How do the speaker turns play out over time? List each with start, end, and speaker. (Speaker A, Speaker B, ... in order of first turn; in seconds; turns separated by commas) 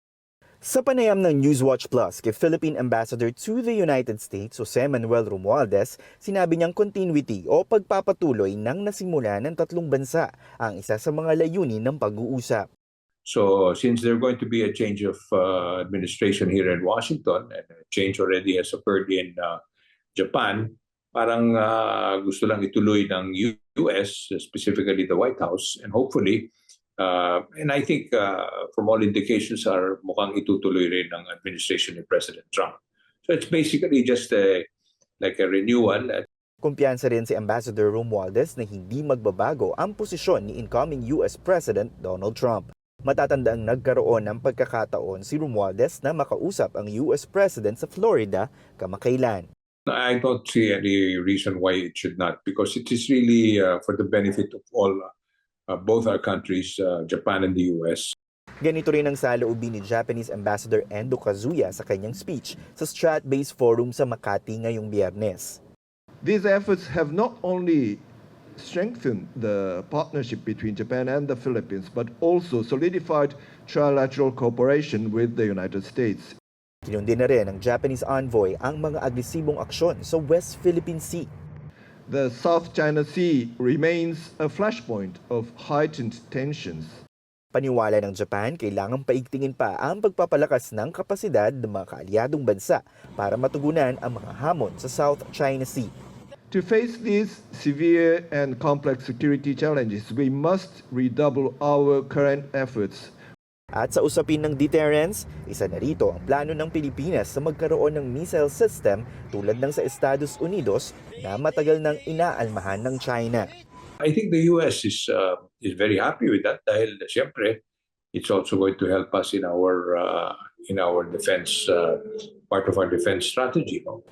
Speaker A: 0.6-12.7, Speaker B: 13.2-19.6, Speaker B: 20.1-34.7, Speaker B: 35.2-36.2, Speaker A: 36.6-49.5, Speaker B: 49.9-55.1, Speaker B: 55.7-58.1, Speaker A: 58.6-65.6, Speaker C: 66.2-68.0, Speaker C: 68.6-76.3, Speaker A: 76.9-81.3, Speaker C: 82.1-87.0, Speaker A: 87.5-95.9, Speaker C: 96.5-103.1, Speaker A: 103.8-113.5, Speaker B: 114.0-117.6, Speaker B: 118.1-124.0